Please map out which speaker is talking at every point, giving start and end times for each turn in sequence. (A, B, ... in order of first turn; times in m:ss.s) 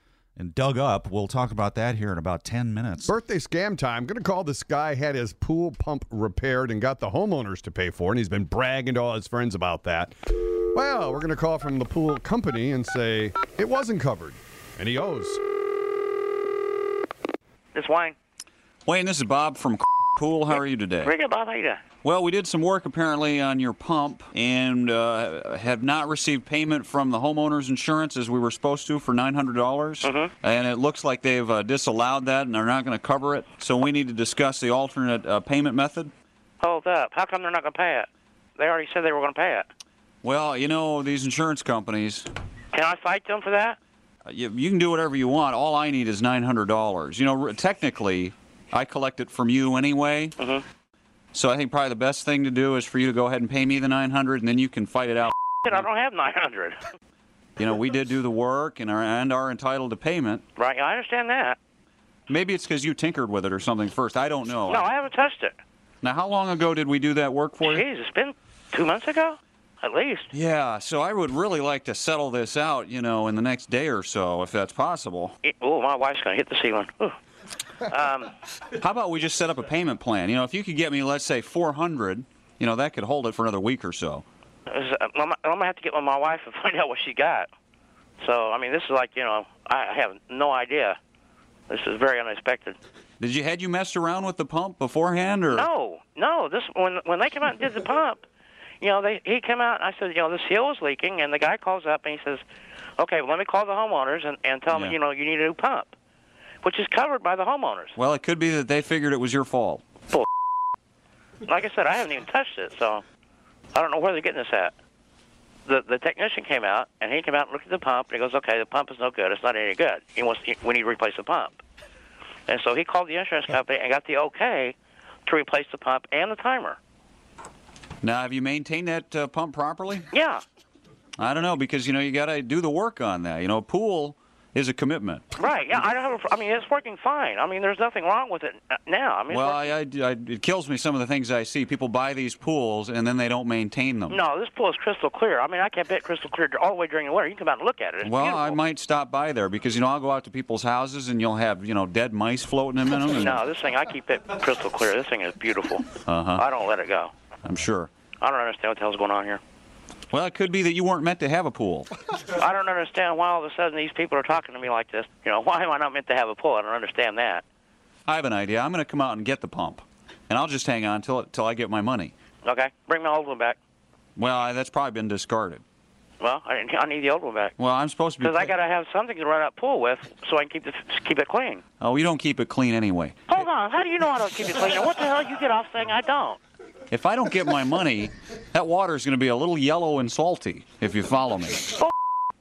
0:00.4-0:03.1 A
0:03.0-0:15.4 B
0:17.7-0:18.2 C
0:18.8-0:21.1 D
0:21.0-0:21.8 C
0:22.0-0:36.1 D
0:30.0-0:30.3 C
0:36.6-0:39.7 C
0:40.2-0:42.3 D
0:42.7-0:43.8 C
0:44.2-0:50.3 D
0:50.4-0:50.6 C
0:51.3-0:55.8 D
0:55.6-0:56.8 C
0:57.6-1:00.4 D
1:00.6-1:01.6 C
1:02.3-1:04.9 D
1:04.7-1:05.6 C
1:06.0-1:07.8 D
1:07.6-1:10.3 C
1:10.3-1:15.4 D
1:15.4-1:17.2 C
1:17.8-1:18.3 C
1:18.8-1:24.2 D
1:24.7-1:27.5 C
1:28.2-1:31.0 C
1:31.7-1:32.8 C
1:33.2-1:35.7 D
1:35.5-1:38.2 C
1:38.8-1:42.4 C
1:43.0-1:45.9 C
1:44.7-1:45.0 D
1:46.6-1:48.0 C
1:48.0-1:49.8 D
1:51.4-1:53.0 C
1:53.7-1:54.7 C
1:55.6-2:01.6 C
2:02.5-2:06.8 C
2:08.0-2:10.0 D
2:10.1-2:10.4 C
2:11.2-2:15.2 D
2:15.4-2:19.7 C
2:19.3-2:24.2 D
2:24.1-2:28.6 C
2:28.0-2:33.5 D
2:33.1-2:37.1 C
2:36.0-2:36.4 D
2:37.4-2:37.9 D
2:38.2-2:39.4 C
2:40.1-2:41.9 D
2:42.3-2:47.4 C
2:48.0-2:52.1 D
2:52.4-2:53.6 C
2:54.2-2:55.6 D
2:56.2-2:57.5 C
2:57.6-2:58.5 D
2:58.2-3:01.6 C
3:01.8-3:03.4 D
3:03.3-3:06.4 C
3:06.9-3:11.8 D